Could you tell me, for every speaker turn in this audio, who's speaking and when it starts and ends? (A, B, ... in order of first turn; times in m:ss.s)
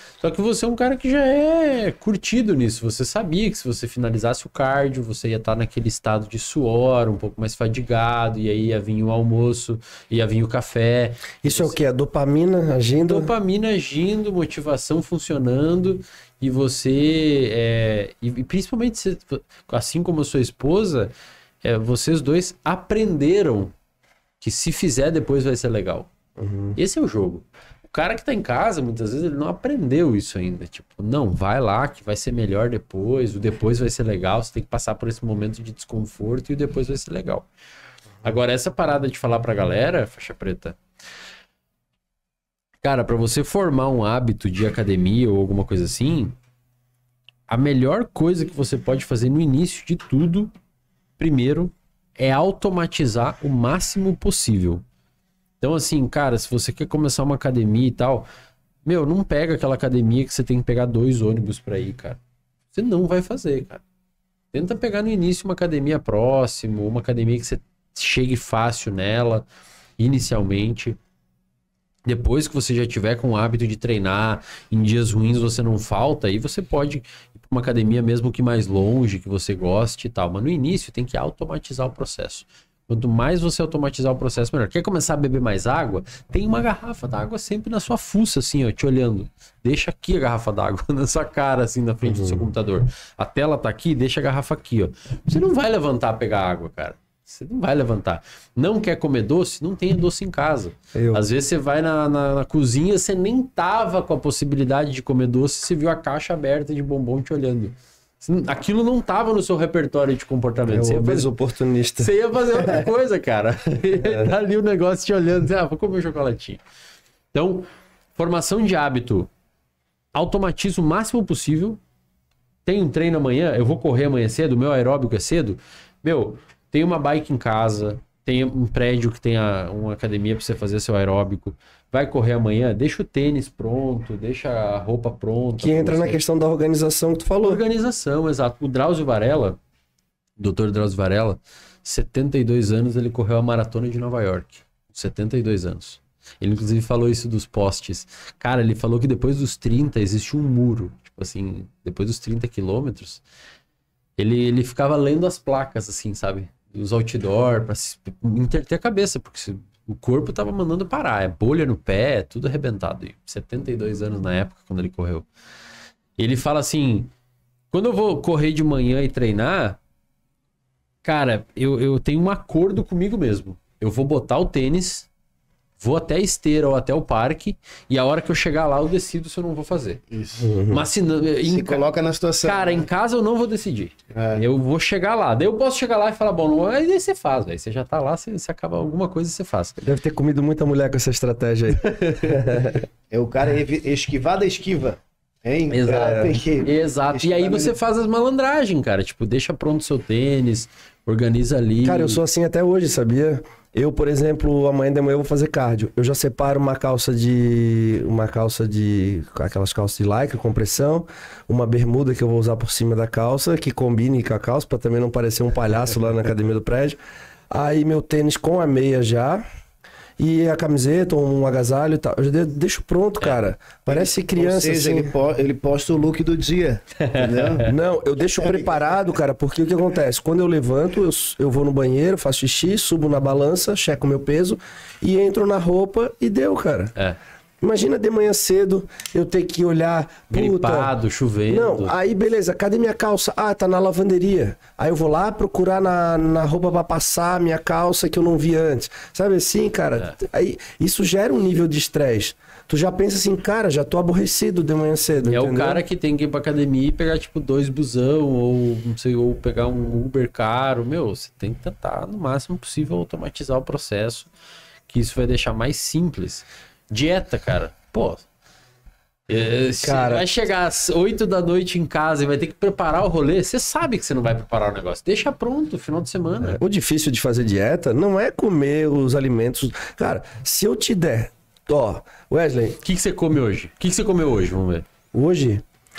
0:00.2-0:11.8 A
0:11.4-0:13.3 B
0:13.0-0:21.1 A
0:21.6-0:23.7 A
0:24.4-0:26.1 A
0:26.4-0:26.8 B
0:26.8-0:37.5 A
0:38.2-0:40.8 A
0:42.8-0:46.4 A
0:47.5-0:50.5 A
0:51.2-0:54.8 A
0:55.6-0:58.3 A
0:58.8-1:02.2 A
1:02.7-1:03.8 A
1:04.5-1:09.5 A
1:10.0-1:11.0 A
1:12.1-1:51.3 A
1:32.0-1:32.5 B
1:41.0-1:41.3 B
1:50.7-1:52.9 B
1:52.0-1:56.6 A
1:54.0-1:54.3 B
1:57.3-1:59.3 A
2:00.2-2:01.8 A
2:02.7-2:16.2 A
2:15.6-2:17.6 B
2:17.4-2:19.6 A
2:20.4-2:33.2 A
2:34.2-2:45.3 A
2:46.2-2:47.1 A
2:47.7-2:49.8 A
2:51.0-2:55.1 A
2:55.8-3:00.1 A
3:00.1-3:00.5 C
3:00.4-3:00.9 B
3:00.7-3:01.9 A
3:01.4-3:02.9 C
3:02.4-3:09.8 A
3:04.1-3:04.4 C
3:09.8-3:12.8 B
3:11.8-3:12.8 A
3:13.1-3:17.7 C
3:15.7-3:22.2 A
3:15.9-3:16.4 B
3:21.8-3:37.0 B
3:37.5-3:39.4 B
3:40.2-3:45.1 B
3:43.9-3:47.7 C
3:47.1-3:47.7 A
3:47.6-3:56.9 B
3:48.4-3:48.8 C
3:57.6-4:00.9 B
4:00.3-4:02.0 A
4:01.5-4:15.8 B
4:15.3-4:24.3 A
4:24.9-4:28.2 A
4:29.3-4:36.6 A
4:29.8-4:30.3 B
4:36.4-4:42.8 B
4:42.8-4:44.8 A
4:45.1-4:45.6 B